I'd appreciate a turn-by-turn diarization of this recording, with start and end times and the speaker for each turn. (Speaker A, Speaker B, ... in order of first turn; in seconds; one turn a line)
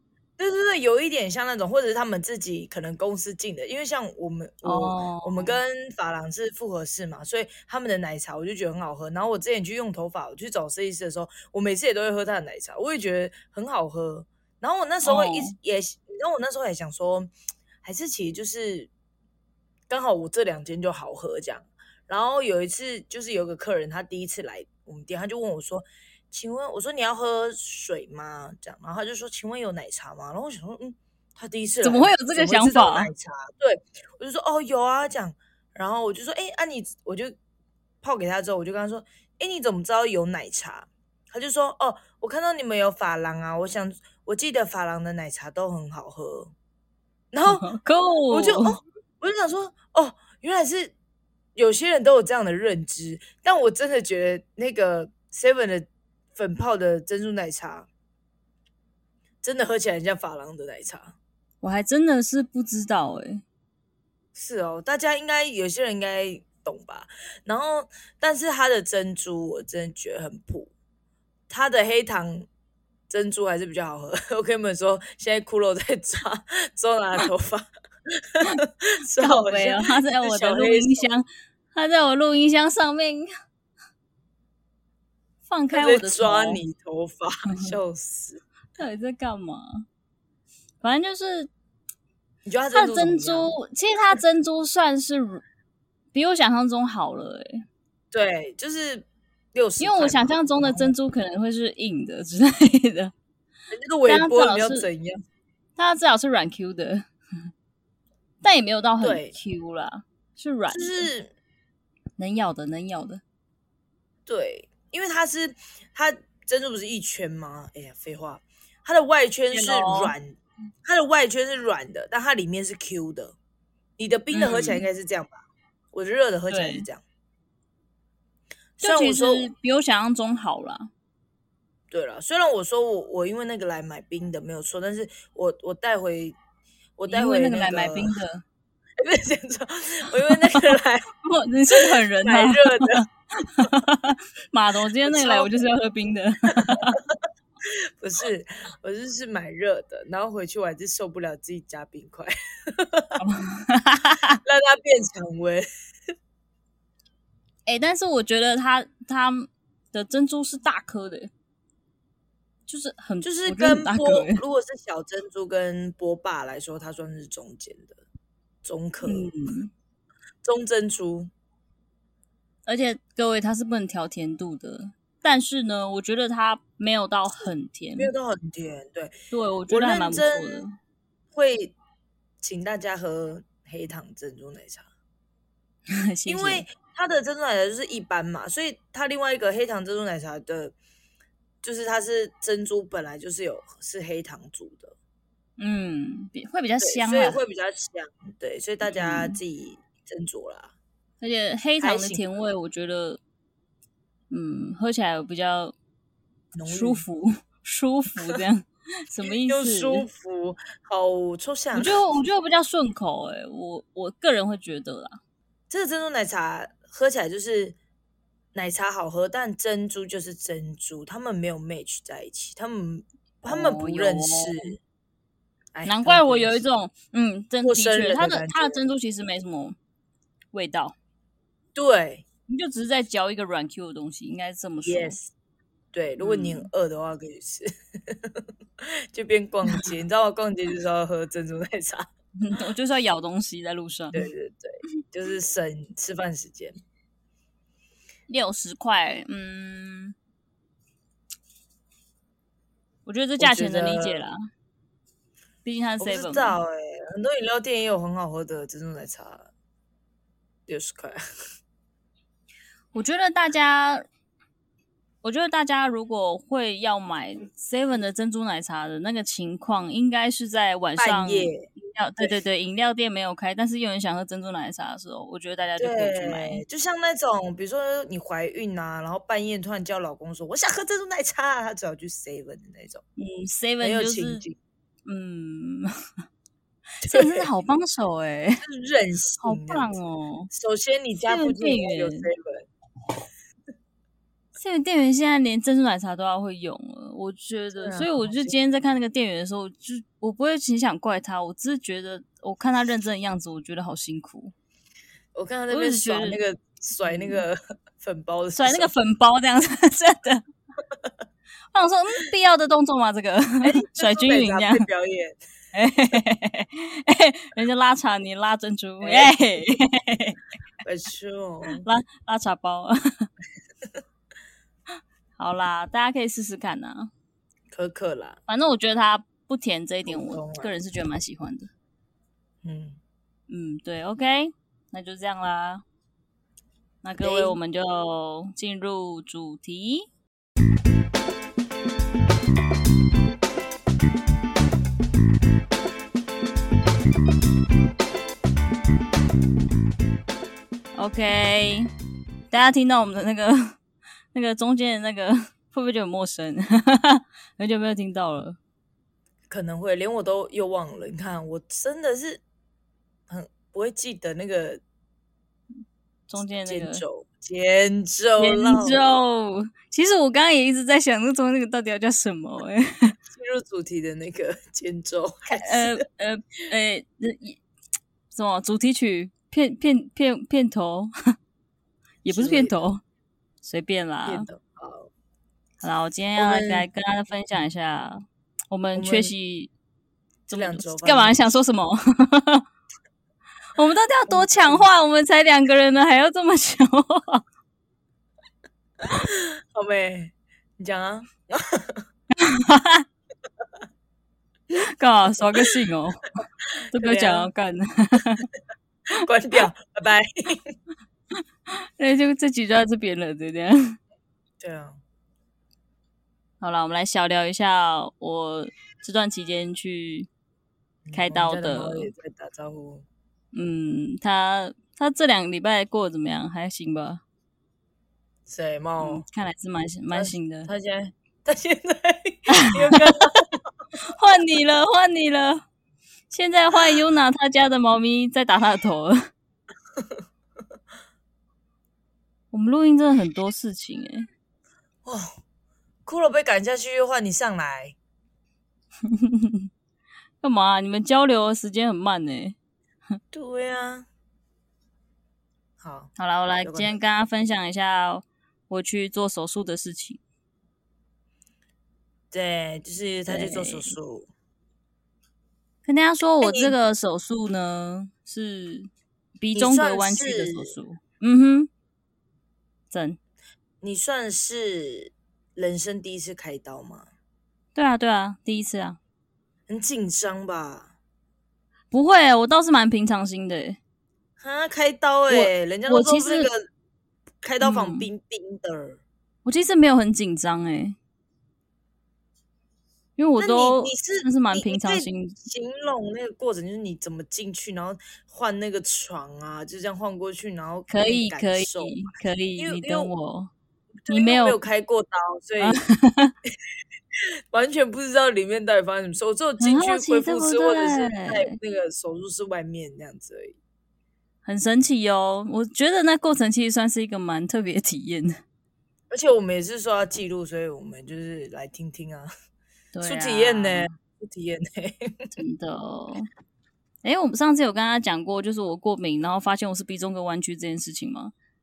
Speaker A: 0.4-17.3
Speaker B: 4.6-5.6
Speaker B: 15.0-15.6
Speaker A: 17.8-18.9
Speaker A: 19.9-37.4
Speaker B: 31.8-33.1
Speaker A: 38.0-46.5
Speaker A: 47.3-47.7
Speaker B: 47.5-48.8
Speaker A: 48.3-50.9
Speaker A: 51.5-57.9
Speaker A: 59.4-61.1
Speaker B: 61.6-63.4
Speaker A: 64.3-70.7
Speaker A: 71.5-72.5
Speaker A: 73.1-81.1
Speaker B: 79.2-83.3
Speaker B: 85.5-86.6
Speaker A: 85.7-88.4
Speaker B: 88.8-89.9
Speaker B: 90.8-91.5
Speaker A: 92.5-93.5
Speaker B: 92.7-95.4
Speaker B: 96.1-97.7
Speaker A: 98.1-100.9
Speaker B: 99.8-103.1
Speaker A: 103.7-105.2
Speaker B: 104.1-104.9
Speaker B: 105.8-107.1
Speaker B: 108.4-111.1
Speaker A: 109.0-109.3
Speaker A: 110.7-111.3
Speaker B: 112.2-113.2
Speaker A: 114.3-123.4
Speaker B: 119.5-120.2
Speaker A: 124.0-127.0
Speaker B: 124.3-124.9
Speaker B: 126.5-126.9
Speaker A: 128.8-129.5
Speaker B: 128.8-130.9
Speaker A: 131.9-136.4
Speaker A: 137.0-138.1
Speaker B: 137.1-138.4
Speaker A: 139.0-141.1
Speaker B: 140.2-147.0
Speaker A: 141.7-143.1
Speaker A: 145.1-145.7
Speaker A: 146.5-153.2
Speaker B: 153.2-154.4
Speaker A: 154.4-155.7
Speaker B: 157.7-161.3
Speaker B: 162.7-164.4
Speaker A: 163.2-168.0
Speaker A: 168.6-169.3
Speaker B: 169.0-169.7
Speaker A: 170.4-171.3
Speaker B: 172.7-178.1
Speaker A: 178.0-179.1
Speaker B: 179.3-180.8
Speaker A: 179.7-180.7
Speaker A: 181.3-181.7
Speaker A: 182.4-184.9
Speaker B: 185.9-186.7
Speaker A: 186.3-190.8
Speaker A: 191.6-194.9
Speaker B: 195.6-197.4
Speaker A: 196.8-200.7
Speaker B: 198.8-199.4
Speaker B: 201.2-203.2
Speaker A: 201.8-202.2
Speaker B: 204.3-205.8
Speaker A: 206.6-207.0
Speaker B: 206.7-210.1
Speaker A: 209.2-212.0
Speaker B: 211.7-215.2
Speaker A: 215.7-217.8
Speaker A: 218.5-224.8
Speaker B: 223.5-224.8
Speaker A: 225.7-226.6
Speaker B: 225.8-229.8
Speaker A: 227.6-228.8
Speaker B: 230.5-231.0
Speaker A: 231.8-232.2
Speaker B: 232.5-235.2
Speaker A: 234.8-235.3
Speaker A: 235.9-242.1
Speaker B: 236.2-236.7
Speaker B: 242.4-244.3
Speaker A: 244.1-246.8
Speaker B: 248.3-250.2
Speaker B: 253.1-254.4
Speaker A: 253.4-254.2
Speaker B: 255.7-256.6
Speaker A: 256.0-259.5
Speaker A: 260.7-261.2
Speaker B: 262.9-264.0
Speaker B: 265.2-276.6
Speaker A: 271.0-271.7
Speaker A: 275.8-283.0
Speaker B: 283.2-284.5
Speaker A: 283.8-284.6
Speaker B: 285.1-285.9
Speaker A: 287.0-287.5
Speaker B: 287.0-288.6
Speaker A: 288.6-290.0
Speaker B: 289.4-290.5
Speaker A: 290.5-292.7
Speaker B: 291.2-292.3
Speaker B: 294.6-304.5
Speaker A: 297.8-298.5
Speaker A: 305.4-308.9
Speaker B: 305.7-306.4
Speaker B: 307.0-307.4
Speaker B: 308.6-310.4
Speaker B: 311.7-314.9
Speaker A: 313.6-315.4
Speaker B: 315.7-320.4
Speaker A: 319.0-319.4
Speaker A: 320.8-321.9
Speaker B: 321.8-323.3
Speaker B: 325.4-327.1
Speaker A: 327.7-328.4
Speaker B: 328.5-331.7
Speaker A: 330.1-330.7
Speaker A: 332.6-333.0
Speaker B: 333.5-335.8
Speaker B: 337.0-340.1
Speaker A: 337.2-337.6
Speaker B: 350.9-351.9
Speaker B: 352.5-353.8
Speaker B: 354.3-358.6
Speaker A: 359.5-362.4
Speaker A: 363.3-364.8
Speaker B: 366.3-367.0
Speaker A: 366.7-369.0
Speaker B: 368.4-373.2
Speaker A: 373.3-376.0
Speaker B: 375.5-377.6
Speaker B: 378.3-381.1
Speaker B: 382.2-383.0
Speaker A: 382.3-382.8
Speaker B: 383.6-384.5
Speaker A: 384.2-385.1
Speaker B: 385.8-389.7
Speaker A: 386.4-386.9
Speaker A: 388.9-389.3
Speaker B: 390.5-392.6
Speaker A: 390.5-391.6
Speaker B: 393.8-397.4
Speaker A: 394.3-394.9
Speaker A: 399.1-402.0
Speaker B: 402.4-403.1
Speaker B: 404.8-406.3
Speaker B: 406.9-408.5
Speaker A: 406.9-407.5
Speaker A: 409.1-410.8
Speaker B: 411.7-414.0
Speaker A: 414.6-415.0
Speaker B: 416.6-420.3
Speaker A: 421.1-423.1
Speaker B: 421.1-422.1
Speaker B: 423.5-427.2
Speaker A: 428.5-429.2
Speaker B: 429.0-430.7
Speaker A: 430.1-433.6
Speaker B: 432.5-433.0
Speaker B: 434.0-435.6
Speaker B: 436.3-439.3
Speaker B: 442.5-444.3
Speaker A: 445.1-445.4
Speaker A: 446.1-447.9
Speaker B: 449.1-449.7
Speaker B: 450.4-452.6
Speaker A: 453.3-454.1
Speaker A: 455.8-456.1
Speaker B: 456.2-460.2
Speaker A: 456.6-456.9
Speaker A: 462.3-464.3
Speaker B: 463.3-463.9
Speaker B: 465.9-471.7
Speaker A: 466.4-466.8
Speaker A: 469.5-470.7
Speaker B: 472.9-473.2
Speaker A: 473.8-477.1
Speaker B: 477.8-479.0
Speaker A: 479.7-480.9
Speaker B: 481.9-483.8
Speaker A: 484.4-486.7
Speaker B: 485.3-486.5
Speaker A: 487.4-489.0
Speaker B: 487.6-488.1
Speaker B: 489.4-491.0
Speaker B: 493.2-495.4
Speaker A: 493.4-503.1
Speaker B: 500.9-503.5
Speaker A: 504.1-505.8
Speaker B: 504.1-504.6
Speaker B: 505.6-506.4
Speaker A: 507.5-513.6
Speaker B: 509.6-511.6
Speaker B: 514.5-518.4
Speaker A: 519.1-522.3
Speaker B: 522.9-523.9
Speaker A: 523.0-525.3
Speaker B: 525.4-526.3
Speaker B: 527.0-531.3